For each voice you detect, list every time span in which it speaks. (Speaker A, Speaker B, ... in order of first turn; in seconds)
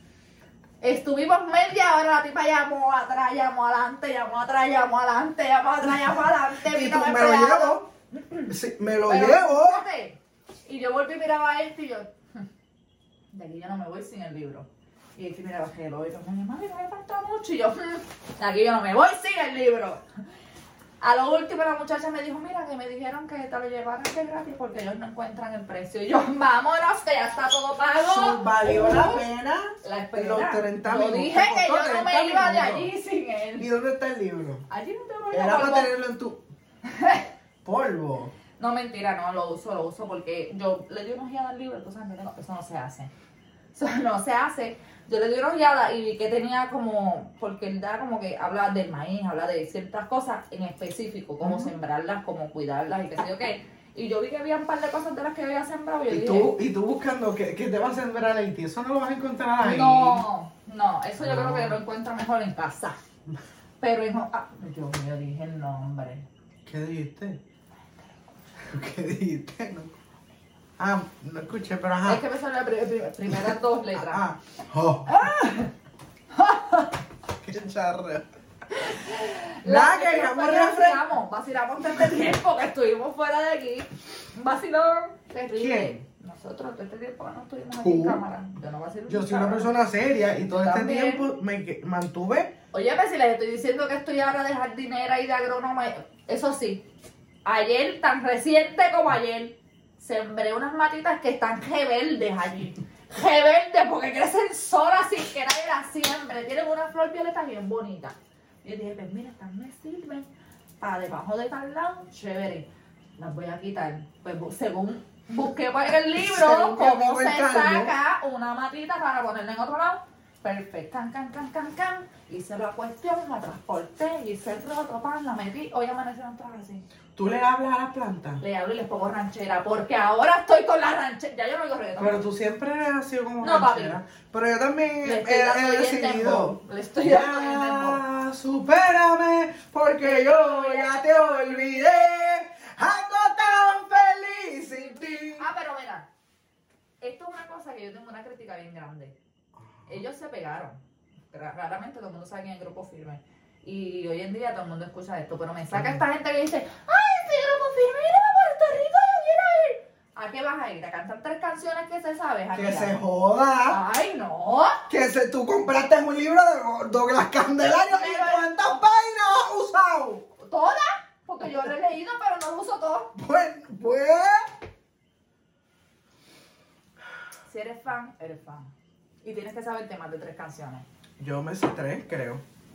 Speaker A: 0.8-8.5, 9.1-12.4, 13.3-20.0, 21.0-29.3, 29.8-33.7, 34.7-35.9, 36.9-37.3, 38.6-43.1, 43.8-56.6, 59.6-63.0, 63.8-66.3, 72.0-74.2, 75.1-75.7, 76.3-77.0, 78.7-89.7, 90.5-91.3, 92.7-96.9, 97.5-110.3, 110.8-126.8, 128.4-132.3, 133.4-134.0, 135.0-138.0, 140.0-141.9, 144.7-146.1, 147.0-149.2, 149.9-150.8, 151.3-163.0, 163.7-164.8, 167.9-168.8, 170.4-173.1, 177.5-178.7, 179.2-180.9
Speaker B: 6.6-7.9, 8.5-9.9, 28.1-32.9, 33.6-34.7, 35.3-36.5, 37.6-38.3, 51.4-51.7, 56.1-60.2, 61.2-61.8, 66.7-67.4, 68.6-69.9, 70.8-72.2, 73.3-75.2, 77.4-78.2, 79.6-81.1, 85.5-86.0, 87.8-88.2, 89.1-92.5, 116.2-117.9, 127.2-128.4, 132.0-145.5, 149.6-149.9, 155.7-156.0, 162.6-163.8, 164.9-170.3, 173.2-174.5, 181.2-182.4